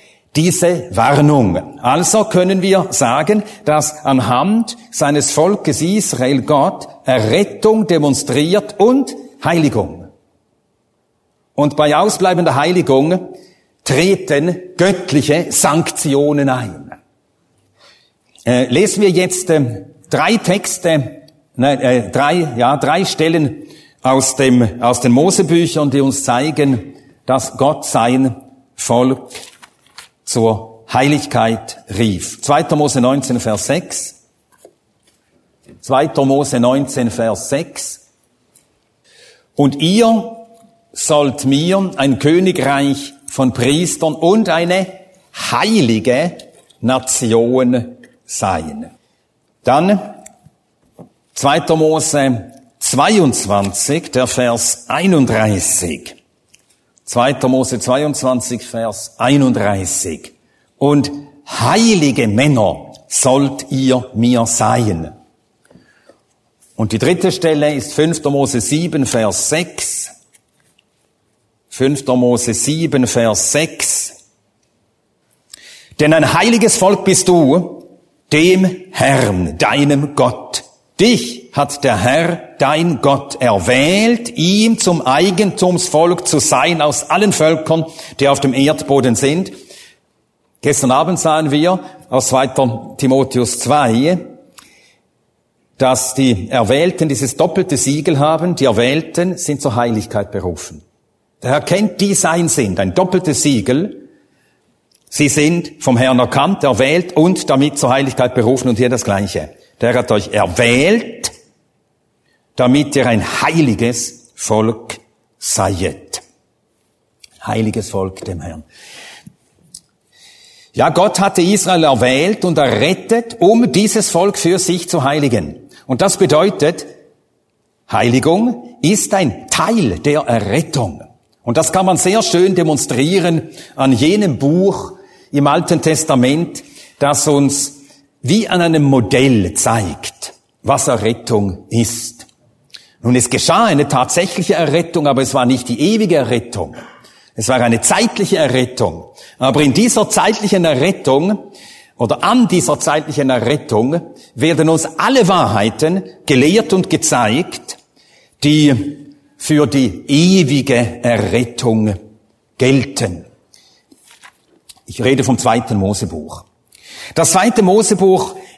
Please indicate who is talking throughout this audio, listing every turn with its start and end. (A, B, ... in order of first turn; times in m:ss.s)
0:00.3-0:10.1 A
0:11.6-0:13.3 A
0:13.8-0:17.0 A
0:18.5-0:29.4 A
0:30.2-0:34.2 A
0:35.8-0:38.0 A
0:39.6-0:48.9 A
0:49.6-0:50.1 A
0:51.3-0:56.2 A
0:57.1-1:05.1 A
1:06.8-1:10.1 A
1:11.7-1:14.2 A
1:16.0-1:29.5 A
1:30.6-1:34.2 A
1:35.8-1:40.8 A
1:41.4-1:44.0 A
1:45.1-1:51.3 A
1:52.6-1:56.2 A
1:57.4-1:58.6 A
2:00.7-2:06.9 A
2:07.9-2:22.3 A
2:23.0-2:26.8 A
2:27.4-2:31.4 A
2:32.0-2:37.8 A
2:38.4-2:42.0 A
2:42.6-2:43.3 A
2:44.9-2:46.4 A
2:47.2-2:48.4 A